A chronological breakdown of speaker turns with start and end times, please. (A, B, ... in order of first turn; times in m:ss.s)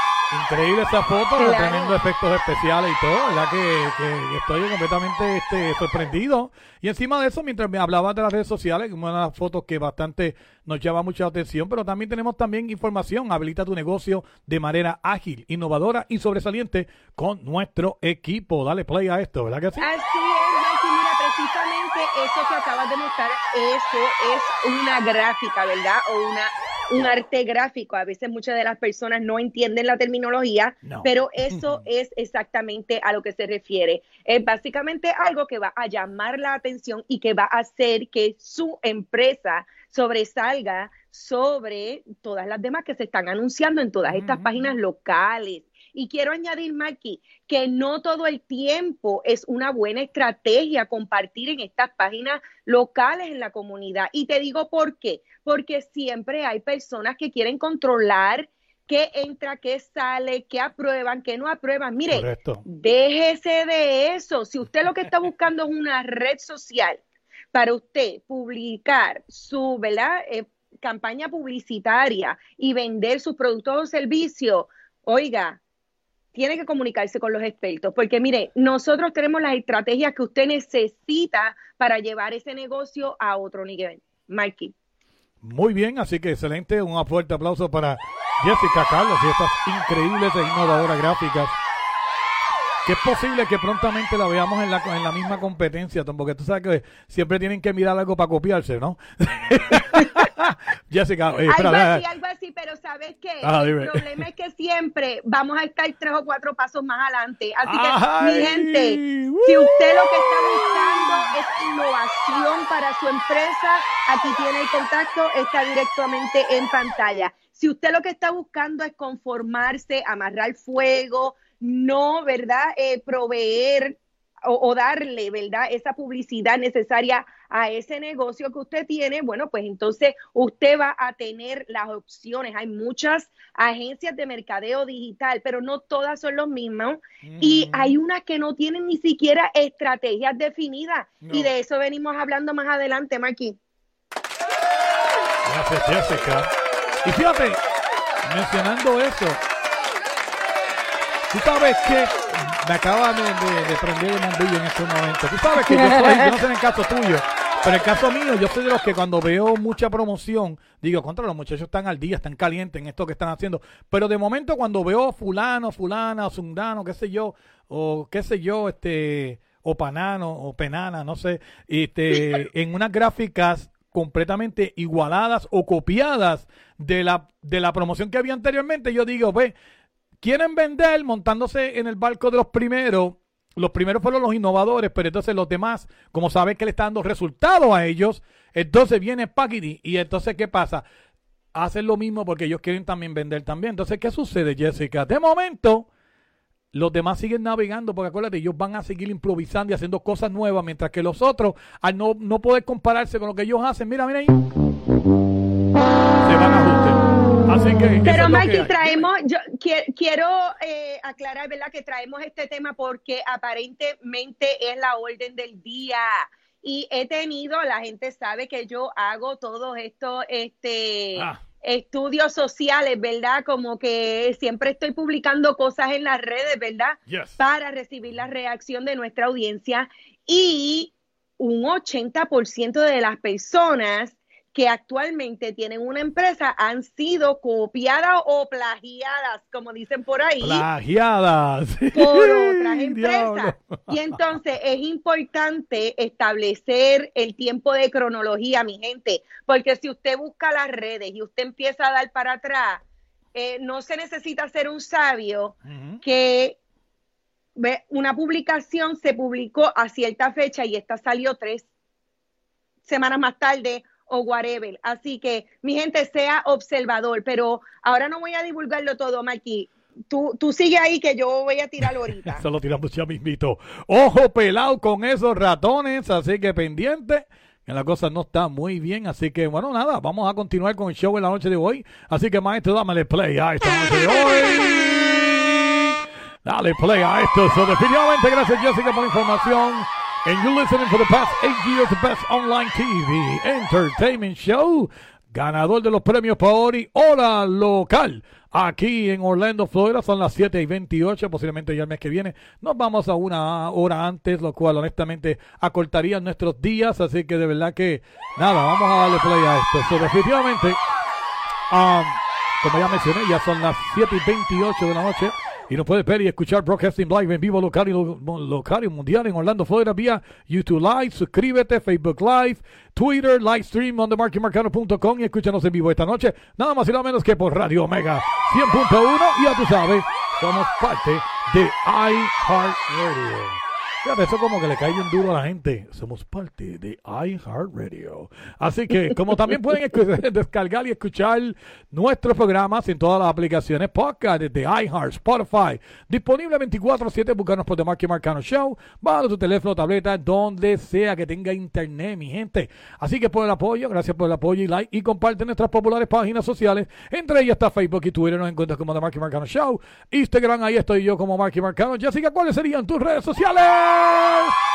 0:00.3-0:19.9 A
0:01.4-0:02.0 B
0:19.8-1:07.0 B
0:30.8-0:31.8 A
0:44.1-0:44.7 A
1:02.1-1:02.6 A
1:07.5-1:15.6 B
1:16.3-1:24.7 B
1:25.4-1:31.6 A
1:32.8-1:42.0 A
1:41.5-2:23.6 B
1:43.4-1:44.1 A
1:47.6-1:51.2 A
2:17.2-2:18.0 A
2:21.2-2:21.5 A
2:25.4-2:26.5 A
2:27.0-2:27.6 A
2:28.2-2:29.4 A
2:31.3-2:59.5 A
2:35.6-2:36.3 B
3:00.2-3:10.8 A
3:11.5-3:15.9 A
3:16.7-3:24.4 A
3:26.2-3:29.0 A
3:28.0-4:00.6 B
3:41.1-3:41.4 A
3:47.1-3:47.4 A
4:00.4-4:03.9 A
4:01.9-4:12.8 B
4:13.3-4:16.6 B
4:15.6-4:16.0 A
4:17.6-4:21.7 B
4:22.8-4:32.4 B
4:32.3-4:45.9 A
4:46.4-5:10.8 A
5:11.7-6:04.5 A